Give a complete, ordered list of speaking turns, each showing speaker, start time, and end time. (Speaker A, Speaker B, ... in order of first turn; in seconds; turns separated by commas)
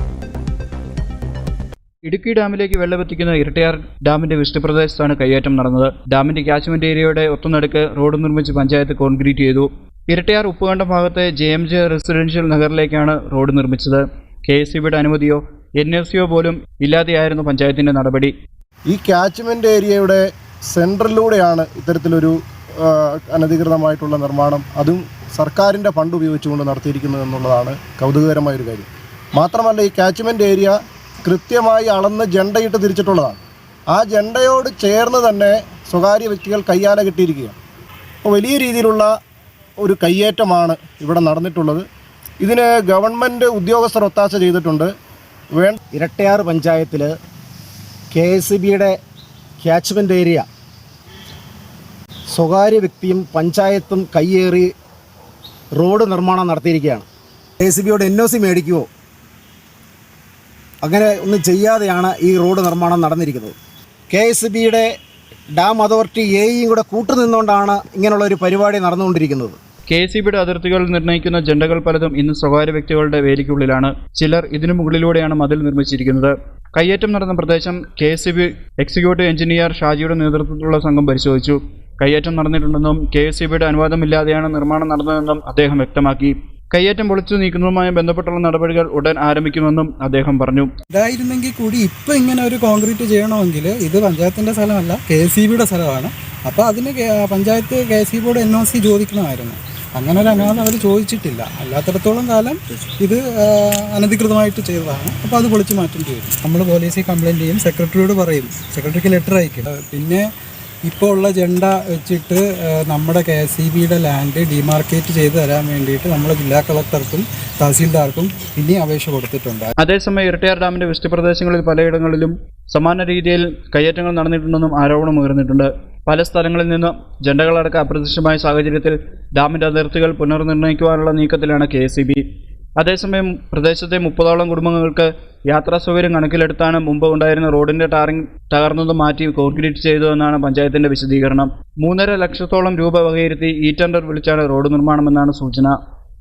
Speaker A: 2.0-18.3, Speaker B: 18.9-30.7, Speaker B: 31.3-33.4, Speaker B: 33.9-37.5, Speaker B: 38.2-39.1, Speaker B: 39.8-41.8, Speaker B: 42.4-44.9, Speaker C: 45.9-47.1, Speaker C: 48.1-48.9, Speaker C: 49.6-50.5, Speaker C: 52.3-54.7, Speaker C: 55.8-57.0, Speaker C: 57.6-58.9, Speaker C: 60.8-63.5, Speaker C: 64.1-64.9, Speaker C: 65.5-69.5, Speaker A: 69.9-90.7, Speaker D: 90.9-110.2, Speaker D: 110.9-119.7, Speaker A: 119.8-132.2, Speaker A: 132.8-145.8